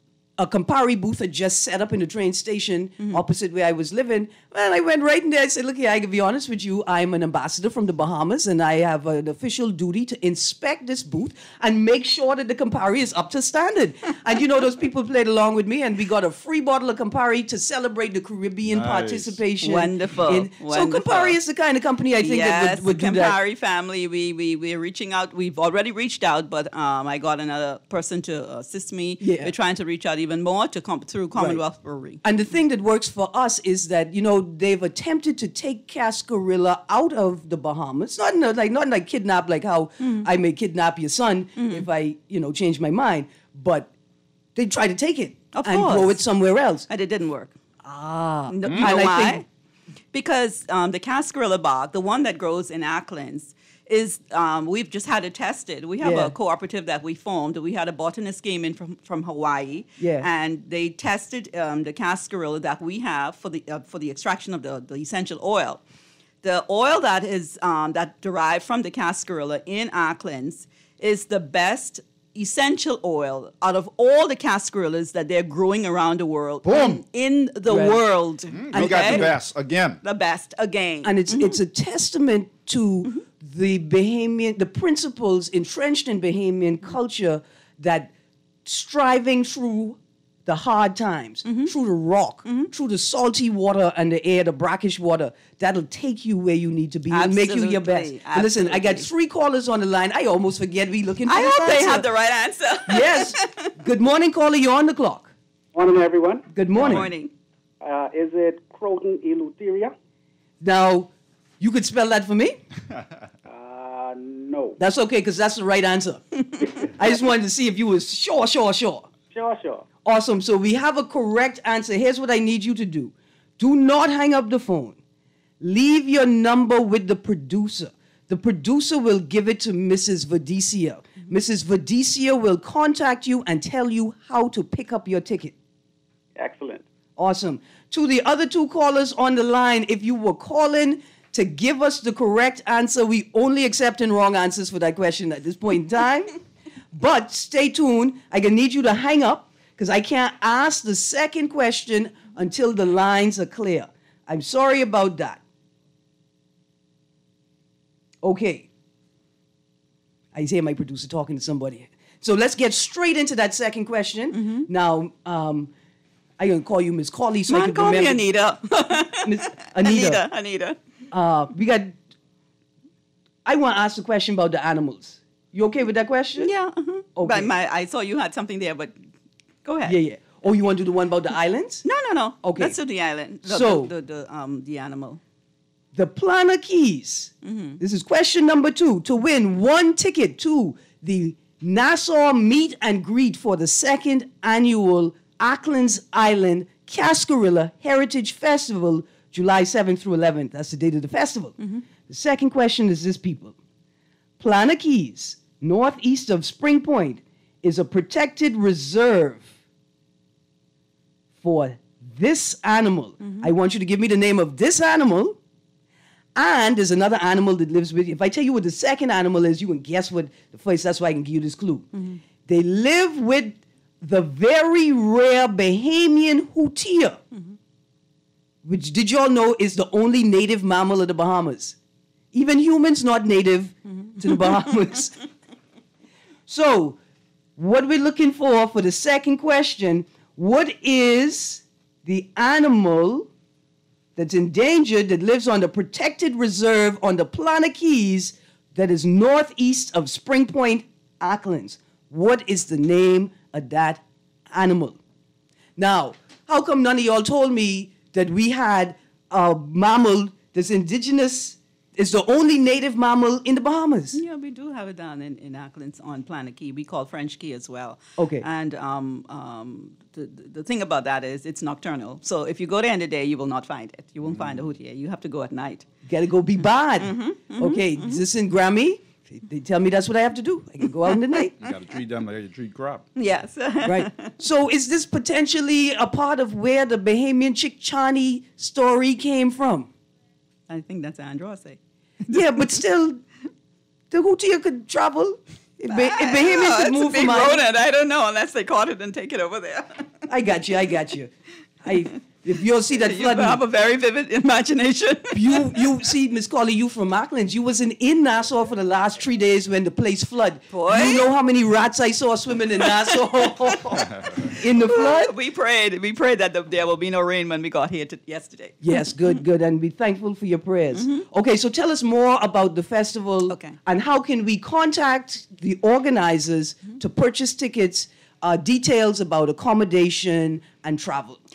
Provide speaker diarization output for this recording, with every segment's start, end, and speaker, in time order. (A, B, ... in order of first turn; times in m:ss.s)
0:00.4-0:23.4 A
0:18.6-0:19.4 B
0:19.6-0:21.4 C
0:22.2-0:32.2 C
0:29.2-0:29.5 A
0:31.3-0:31.6 A
0:32.2-0:43.9 A
0:40.0-0:40.3 C
0:41.6-0:41.8 C
0:44.5-0:46.9 A
0:45.5-0:46.2 C
0:46.9-0:47.5 C
0:47.8-0:49.4 A
0:48.5-0:49.4 C
0:48.6-0:49.0 B
0:50.1-1:05.8 C
0:56.0-0:56.3 A
1:00.0-1:00.3 A
1:06.4-1:19.3 C
1:16.7-1:17.0 A
1:17.7-1:18.0 A
1:18.5-1:20.0 B
1:18.7-1:19.3 A
1:20.0-1:21.6 C
1:21.0-1:28.1 A
1:28.6-1:42.1 A
1:31.4-1:31.7 C
1:37.1-1:39.1 C
1:41.3-1:43.7 C
1:42.9-1:45.3 A
1:45.7-1:46.4 D
1:46.5-1:47.1 A
1:46.7-1:47.3 C
1:46.8-1:47.1 B
1:47.8-1:49.9 D
1:50.6-1:52.6 A
1:53.4-1:54.8 D
1:54.8-1:56.2 A
1:56.8-1:59.1 A
1:59.3-1:59.9 D
2:00.0-2:05.0 A
2:05.6-2:15.5 A
2:16.4-2:16.8 D
2:17.2-2:26.3 A
2:26.9-2:35.4 A
2:38.2-2:38.7 A
2:40.3-2:45.7 A
2:44.3-2:44.7 C
2:46.4-2:48.2 A
2:47.5-2:50.8 C
2:49.1-2:50.2 A
2:51.1-2:52.0 A
2:53.4-2:56.5 A
2:56.4-2:58.9 C
2:57.2-2:57.5 A
2:59.6-3:00.0 C
2:59.8-3:01.8 A
3:01.8-3:05.2 C
3:02.4-3:02.8 A
3:03.4-3:03.9 A
3:05.9-3:21.6 A
3:07.4-3:07.8 C
3:22.1-3:23.6 A
3:24.4-3:29.5 A
3:31.4-3:35.4 A
3:33.2-3:33.5 C
3:36.4-3:41.9 A
3:41.9-3:42.2 C
3:42.4-3:47.2 A
3:48.6-3:51.8 A
3:52.3-3:55.1 A
3:56.5-3:57.0 A
3:57.6-4:03.3 A
4:04.2-4:15.0 A
4:15.8-4:24.2 A
4:24.1-4:35.8 C
4:28.2-4:28.4 A
4:34.2-4:34.6 B
4:36.0-4:41.5 A
4:37.0-4:38.2 C
4:41.6-4:43.0 B
4:43.1-4:44.3 C
4:43.8-4:49.9 A
4:50.7-4:51.8 C
4:52.3-4:53.2 A
4:54.1-4:57.6 A
4:55.9-5:00.0 C
5:00.3-5:01.3 A
5:01.8-5:03.6 A
5:03.0-5:05.8 C
5:05.3-5:15.3 A
5:10.7-5:11.2 C
5:13.9-5:18.8 C
5:18.8-5:31.4 A
5:20.9-5:21.2 C
5:23.5-5:23.8 C